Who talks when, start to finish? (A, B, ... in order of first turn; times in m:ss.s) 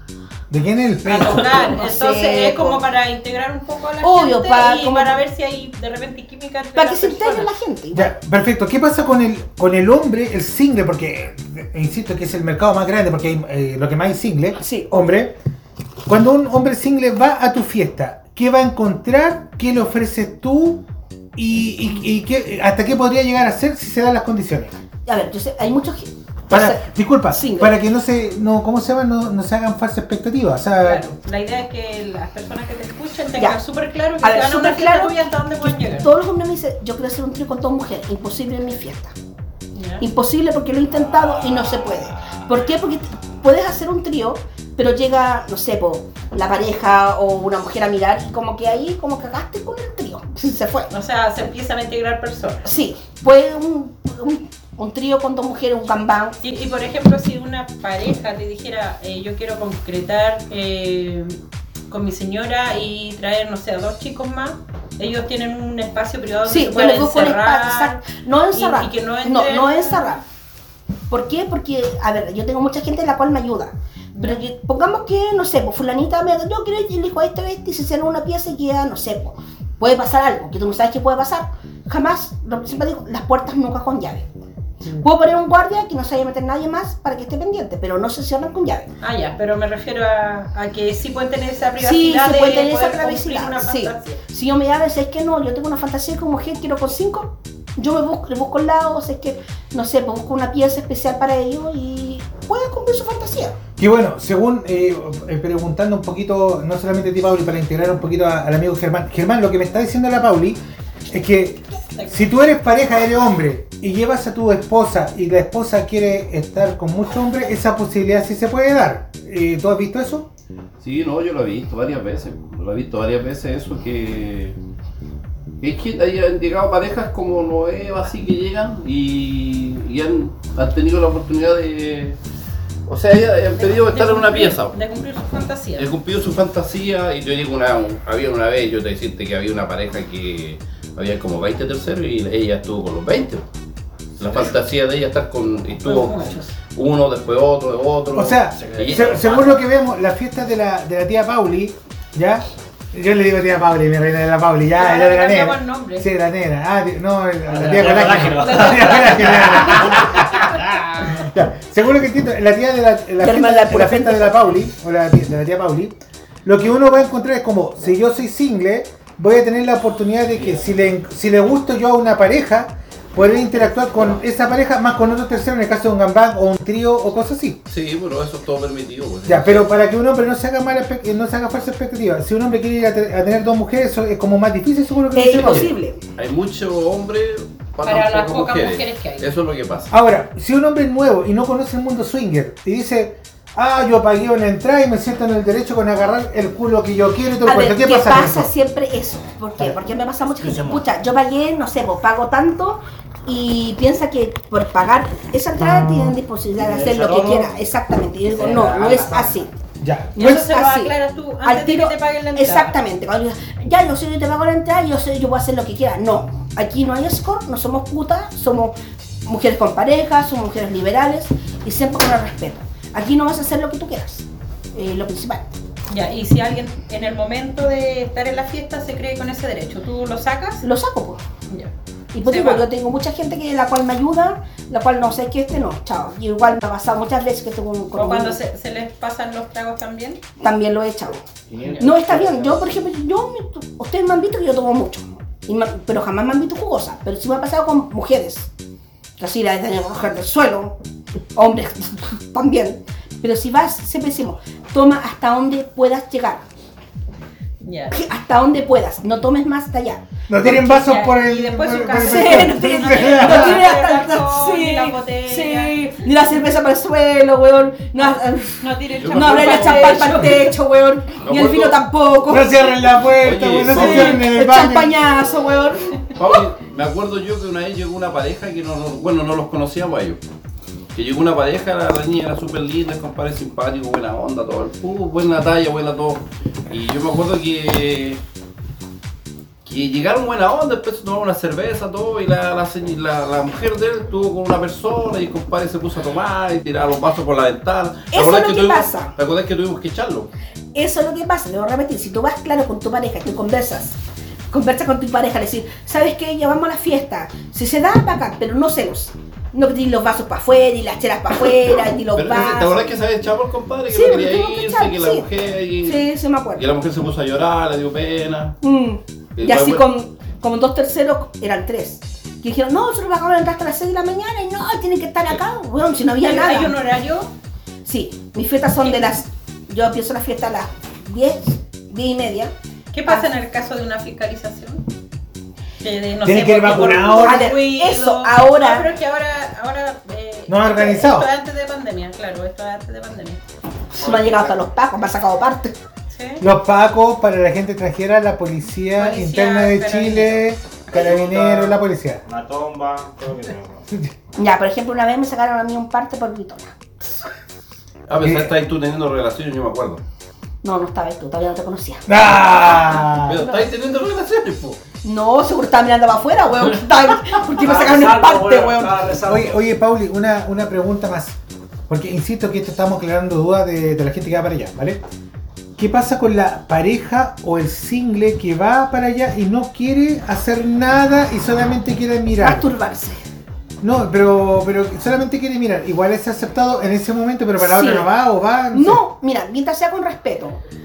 0:00.5-0:01.5 A
0:01.0-0:07.5 B
0:01.4-0:02.8 C
0:04.0-0:05.2 C
0:06.8-0:08.1 C
0:07.9-0:15.4 A
0:14.6-0:15.1 C
0:16.1-0:20.8 A
0:21.4-0:24.8 A
0:25.1-0:27.7 C
0:26.5-0:31.0 A
0:30.8-0:36.1 B
0:34.2-0:39.1 C
0:39.8-0:40.0 B
0:40.0-0:50.9 C
0:50.9-0:52.7 B
0:52.6-0:56.4 C
0:56.4-1:01.4 B
1:01.9-1:08.0 B
1:06.4-1:10.2 C
1:08.5-1:10.2 B
1:11.1-1:24.3 C
1:14.1-1:14.4 B
1:24.9-1:28.9 C
1:29.0-1:34.2 B
1:31.8-1:43.6 C
1:43.8-1:50.6 A
1:51.1-2:00.3 A
1:52.0-1:52.2 B
2:00.8-2:04.6 D
2:05.6-2:12.2 D
2:12.9-2:14.8 D
2:13.6-2:15.9 B
2:15.8-2:23.4 D
2:24.2-2:29.6 D
2:25.8-2:26.5 B
2:28.1-2:57.6 A
2:28.6-2:29.4 E
2:34.8-2:36.1 B
2:37.5-2:40.3 E
2:38.4-2:40.6 B
2:43.2-2:44.4 C
2:57.7-2:59.7 D
2:59.3-3:05.7 A
3:05.1-3:06.0 C
3:05.4-3:09.9 D
3:07.8-3:09.3 B
3:09.9-3:18.5 A
3:17.4-3:29.5 C
3:20.4-3:20.8 E
3:26.6-3:27.6 E
3:28.3-3:29.4 E
3:29.8-3:30.4 A
3:30.2-3:32.8 B
3:30.2-3:38.8 C
3:39.3-3:45.5 C
3:45.9-3:50.6 B
3:50.6-3:51.2 C
3:52.1-3:58.4 C
3:52.2-3:52.7 B
3:58.0-4:00.2 B
4:00.4-4:01.2 C
4:01.5-4:02.7 E
4:01.8-4:08.5 C
4:09.2-4:10.8 C
4:11.4-4:16.4 C
4:17.6-4:18.0 B
4:17.9-4:20.6 C
4:20.3-4:23.7 A
4:20.6-4:25.8 B
4:22.0-4:32.6 C
4:28.0-4:30.6 B
4:29.0-4:30.3 D
4:31.2-4:31.8 D
4:32.3-4:35.0 A
4:33.2-4:34.2 D
4:33.7-4:36.4 C
4:36.2-4:40.2 D
4:41.0-4:48.2 D
4:49.7-5:00.3 D
4:58.1-4:59.1 C
5:00.8-5:04.0 C
5:04.5-5:12.9 C
5:12.2-5:18.6 D
5:13.9-5:15.3 C
5:15.8-5:16.6 C
5:18.6-5:26.8 C
5:19.4-5:19.8 D
5:26.2-5:27.3 B
5:27.8-5:32.5 C
5:28.8-5:29.1 B
5:32.9-5:34.8 B
5:35.8-5:43.4 B
5:36.2-5:37.6 A
5:37.2-5:38.9 C
5:40.5-5:41.3 A
5:43.9-5:45.8 C
5:44.1-5:44.5 E
5:46.1-5:46.4 B
5:46.4-5:52.2 A
5:49.0-5:50.4 B
5:50.9-5:53.9 E
5:54.4-5:56.7 C
5:58.1-6:00.0 D
5:58.2-5:58.5 A
6:00.6-6:02.1 C
6:02.1-6:03.4 A
6:03.2-6:04.8 D
6:05.0-6:09.0 C
6:07.6-6:09.6 E
6:09.2-6:11.4 A
6:11.9-6:15.0 A
6:15.8-6:22.7 A
6:22.4-6:23.2 C
6:23.8-6:29.0 A
6:27.6-6:28.1 C
6:28.7-6:30.6 C